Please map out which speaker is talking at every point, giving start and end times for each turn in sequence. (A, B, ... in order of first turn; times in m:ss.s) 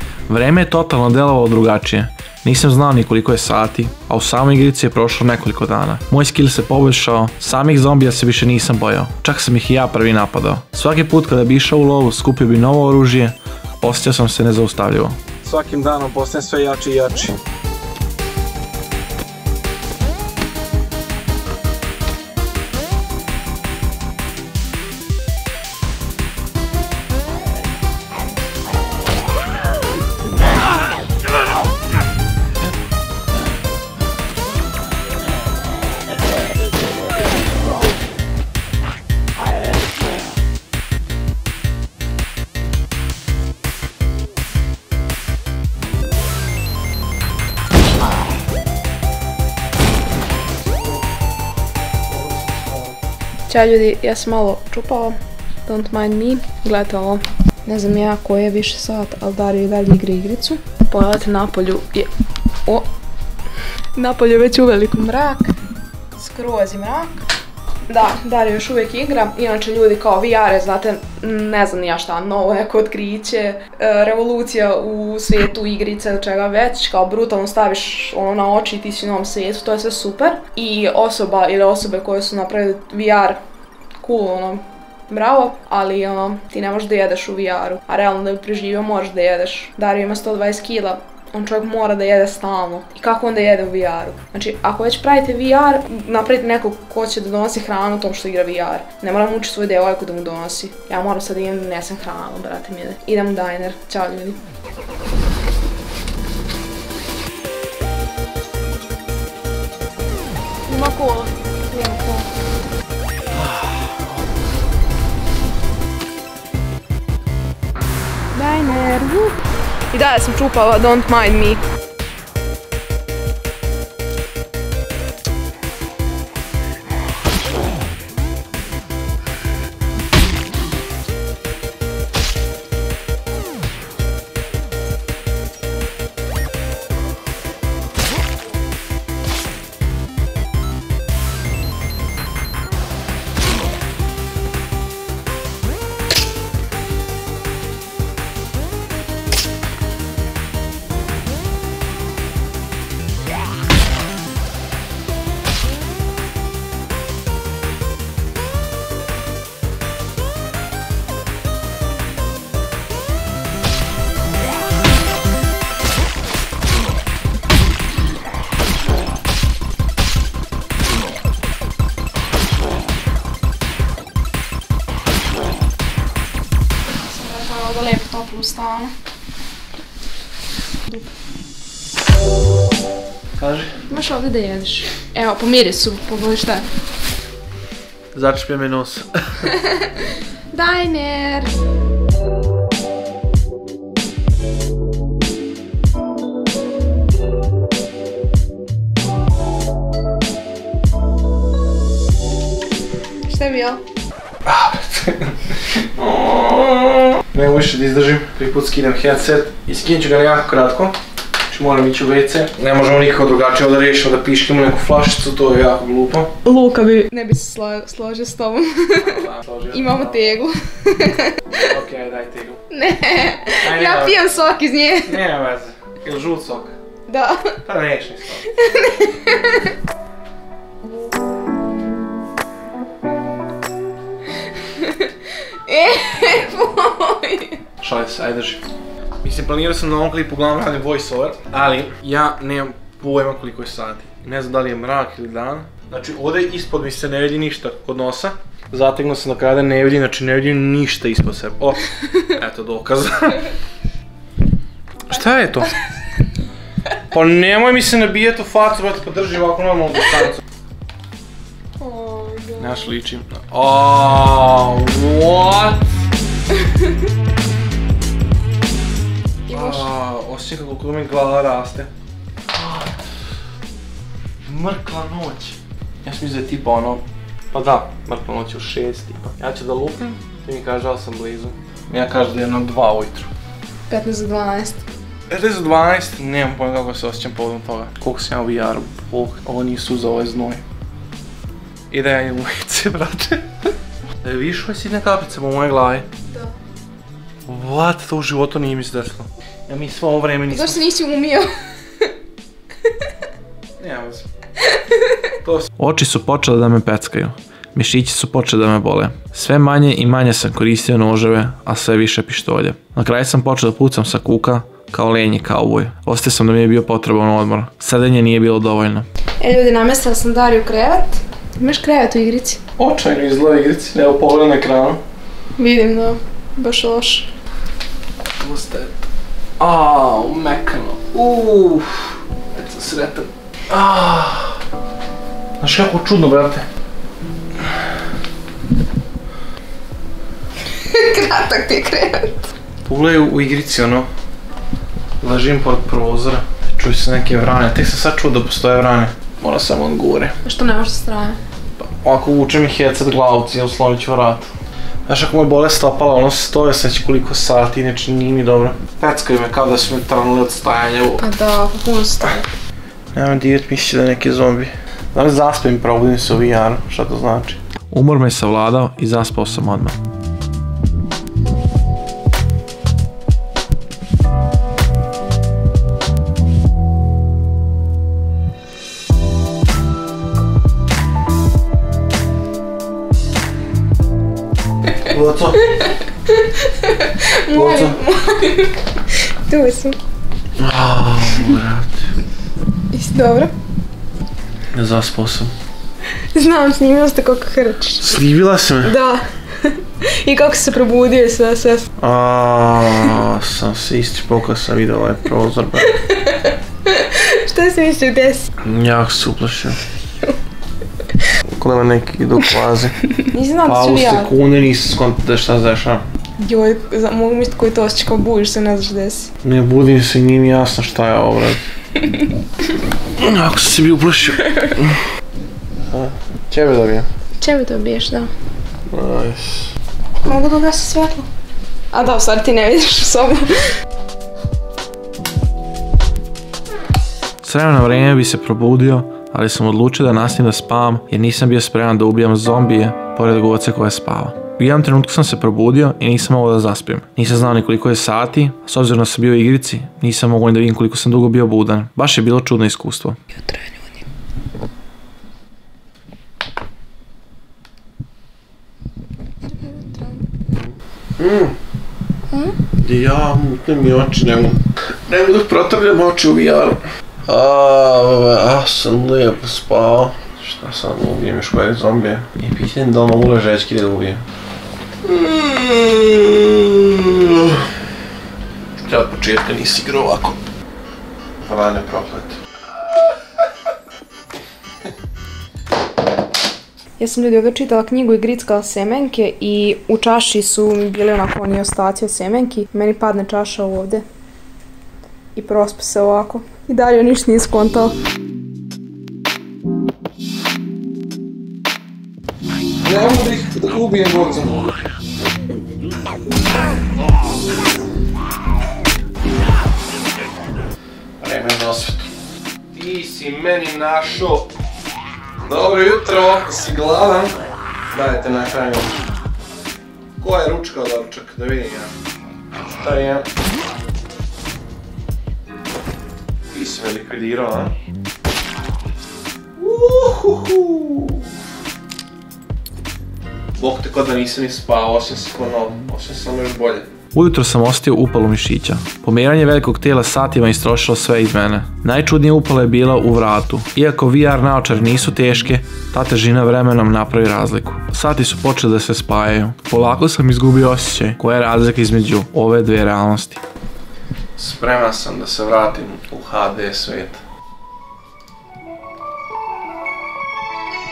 0:00.3-0:17.4 A
0:52.1-0:52.8 A
0:53.5-1:02.1 B
1:03.9-1:05.5 B
1:06.1-1:07.2 B
1:07.9-1:23.4 B
1:24.0-1:44.4 B
1:50.7-1:52.3 B
1:58.3-1:59.4 B
1:59.9-2:01.6 B
2:56.9-2:58.9 B
3:00.8-3:01.1 B
3:03.4-3:03.8 A
3:03.9-3:06.6 B
3:08.1-3:09.5 A
3:09.4-3:11.5 B
3:23.2-3:23.8 B
3:24.4-3:31.0 A
3:31.5-3:36.3 A
3:36.4-3:41.6 B
3:39.0-3:40.4 A
3:41.6-3:42.6 A
3:42.7-3:45.2 B
3:43.6-3:44.2 A
3:45.0-3:46.7 A
3:47.1-3:47.6 B
3:47.6-3:48.6 A
3:48.5-3:49.7 B
3:54.6-3:57.6 B
3:57.8-3:58.6 A
3:59.2-4:13.5 A
4:15.1-4:15.7 A
4:17.1-4:20.4 A
4:21.8-4:22.9 B
4:22.6-4:25.8 A
4:29.5-4:29.9 B
4:29.5-4:31.9 A
4:32.5-4:32.9 A
4:34.4-4:43.3 A
4:43.9-4:44.8 B
4:45.3-4:50.6 A
4:51.9-4:53.5 A
4:54.2-4:56.1 A
4:57.5-5:00.8 A
5:00.5-5:02.1 B
5:03.8-5:04.3 A
5:04.6-5:05.2 B
5:05.4-5:19.0 A
5:19.4-5:22.6 B
5:22.8-5:25.0 A
5:25.6-5:27.3 B
5:28.4-5:29.1 A
5:29.6-5:34.6 A
5:35.6-5:36.6 A
5:40.7-5:42.4 B
5:42.8-5:44.1 A
5:45.2-5:50.3 A
5:50.4-5:51.4 B
5:51.8-5:54.5 A
5:55.0-6:01.2 A
6:01.2-6:02.5 B
6:03.1-6:10.0 A
6:25.1-6:25.6 A
6:25.6-6:30.0 B
6:27.5-6:28.0 A
6:30.6-6:32.1 A
6:32.9-6:33.5 B
6:34.7-6:35.5 A
6:36.3-6:38.2 B
6:38.0-6:38.9 A
6:38.8-6:41.9 B
6:42.0-6:45.9 A
6:45.8-6:48.5 B
6:48.6-6:49.8 A
6:51.5-6:53.0 A
6:53.2-6:54.3 B
6:53.6-6:56.0 A
6:56.4-6:59.3 B
6:59.4-7:01.6 A
7:02.0-7:02.3 B
7:03.2-7:05.0 A
7:04.5-7:04.7 B
7:05.9-7:07.1 A
7:07.4-7:08.3 B
7:08.9-7:09.7 A
7:10.2-7:11.3 B
7:11.9-7:13.8 B
7:17.4-7:33.2 A
7:33.3-7:34.0 B
7:39.5-7:40.3 B
7:41.2-7:41.5 A
7:42.3-7:42.6 B
7:42.8-7:54.2 A
7:55.0-7:57.6 A
7:58.8-8:00.4 A
8:01.4-8:02.4 A
8:07.0-8:14.0 B
8:15.3-8:17.9 B
8:22.8-8:24.7 A
8:31.2-8:32.1 A
8:32.7-8:34.5 A
8:35.4-8:37.4 A
8:37.9-8:39.0 A
8:40.2-8:41.9 A
8:42.6-8:43.3 A
8:46.5-8:47.7 A
8:49.6-8:51.3 A
8:53.6-9:13.4 A
9:14.4-9:17.2 A